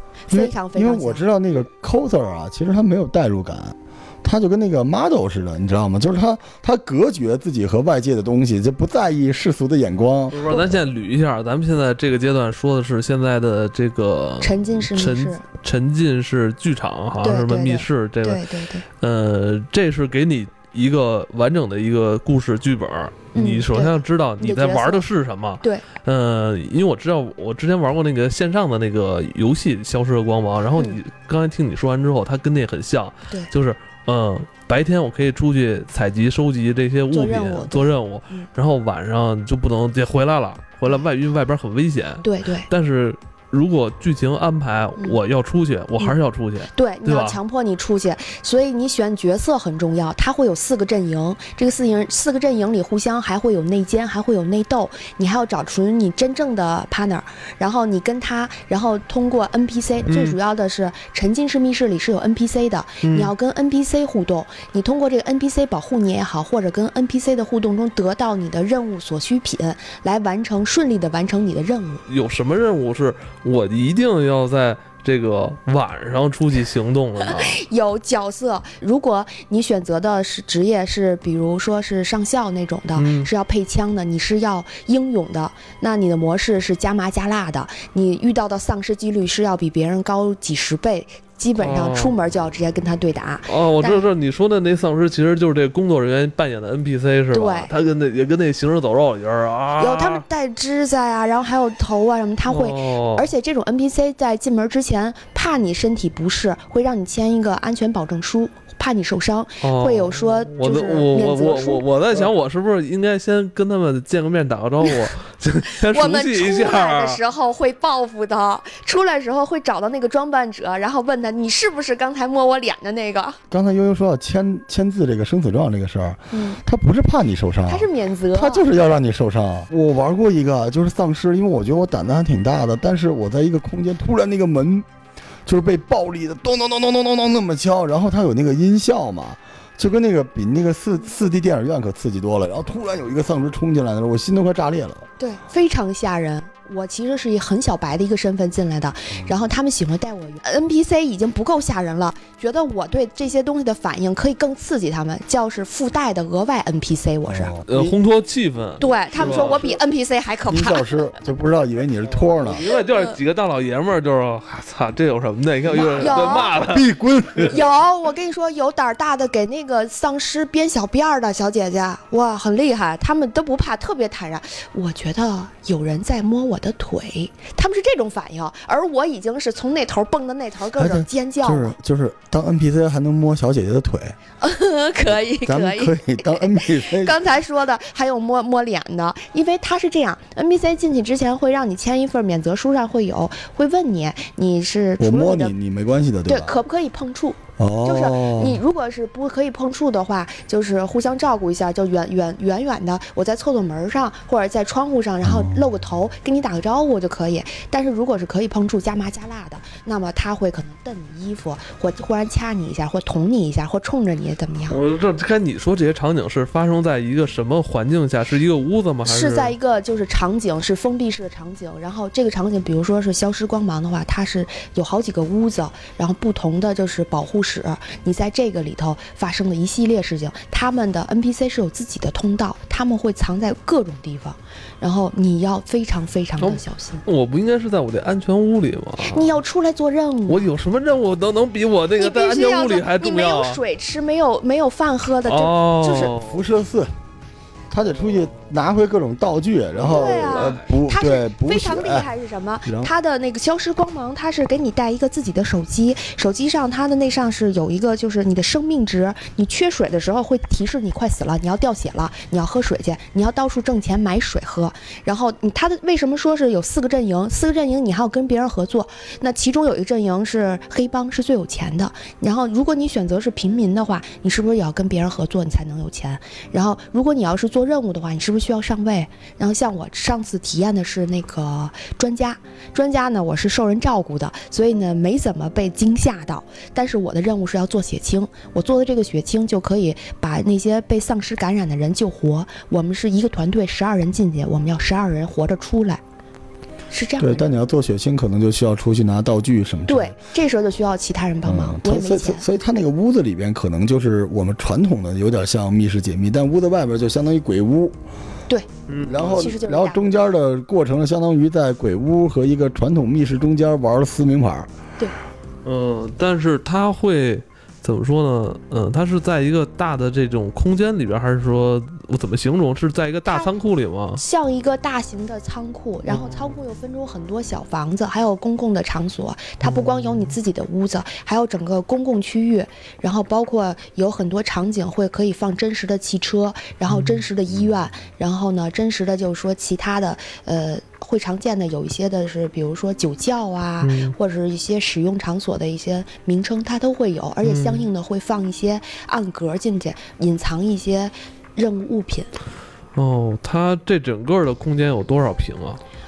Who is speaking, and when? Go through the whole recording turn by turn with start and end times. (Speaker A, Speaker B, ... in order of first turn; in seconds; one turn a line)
Speaker A: 0.3-1.2
Speaker B: 0.3-10.5
Speaker C: 10.3-18.4
Speaker A: 14.4-15.4
Speaker A: 17.2-18.8
Speaker C: 19.0-47.4
Speaker A: 23.3-25.1
Speaker A: 37.1-38.5
Speaker A: 42.2-42.7
Speaker A: 46.8-72.0
Speaker C: 60.1-60.4
Speaker C: 63.0-63.3
Speaker C: 72.1-77.6
Speaker A: 77.2-94.0
Speaker C: 83.0-83.3
Speaker C: 91.6-92.2
Speaker C: 93.5-100.2
Speaker A: 97.3-97.7
Speaker A: 99.8-111.8
Speaker C: 102.5-103.3
Speaker C: 109.6-117.2
Speaker A: 115.8-123.4
Speaker B: 123.5-134.9
Speaker A: 126.3-126.6
Speaker A: 127.7-128.7
Speaker B: 135.5-145.1
Speaker A: 145.2-157.6
Speaker B: 157.3-157.9
Speaker C: 157.7-159.8
Speaker A: 158.8-160.9
Speaker B: 160.5-162.6
Speaker C: 162.2-166.9
Speaker A: 165.7-166.6
Speaker B: 166.1-167.6
Speaker A: 167.4-181.7
Speaker B: 180.8-184.2
Speaker A: 184.4-195.5
Speaker B: 185.4-187.2
Speaker B: 195.0-196.6
Speaker A: 196.3-214.8
Speaker B: 197.6-198.6
Speaker B: 205.2-205.6
Speaker C: 214.7-219.5
Speaker A: 219.1-237.0
Speaker C: 236.4-239.4
Speaker A: 239.0-240.5
Speaker C: 240.3-243.6
Speaker A: 242.0-246.2
Speaker C: 245.3-246.4
Speaker B: 246.2-246.9
Speaker B: 247.7-252.1
Speaker A: 249.8-296.0
Speaker C: 249.8-250.6
Speaker B: 252.7-252.9
Speaker A: 296.9-297.5
Speaker B: 297.2-300.2
Speaker A: 299.9-302.5
Speaker B: 301.4-308.0
Speaker A: 308.5-310.1
Speaker C: 308.9-309.4
Speaker B: 309.0-314.7
Speaker C: 315.6-324.2
Speaker A: 324.2-352.3
Speaker C: 326.1-326.5
Speaker C: 329.7-330.3
Speaker C: 343.8-344.1
Speaker C: 347.4-347.9
Speaker C: 353.0-355.8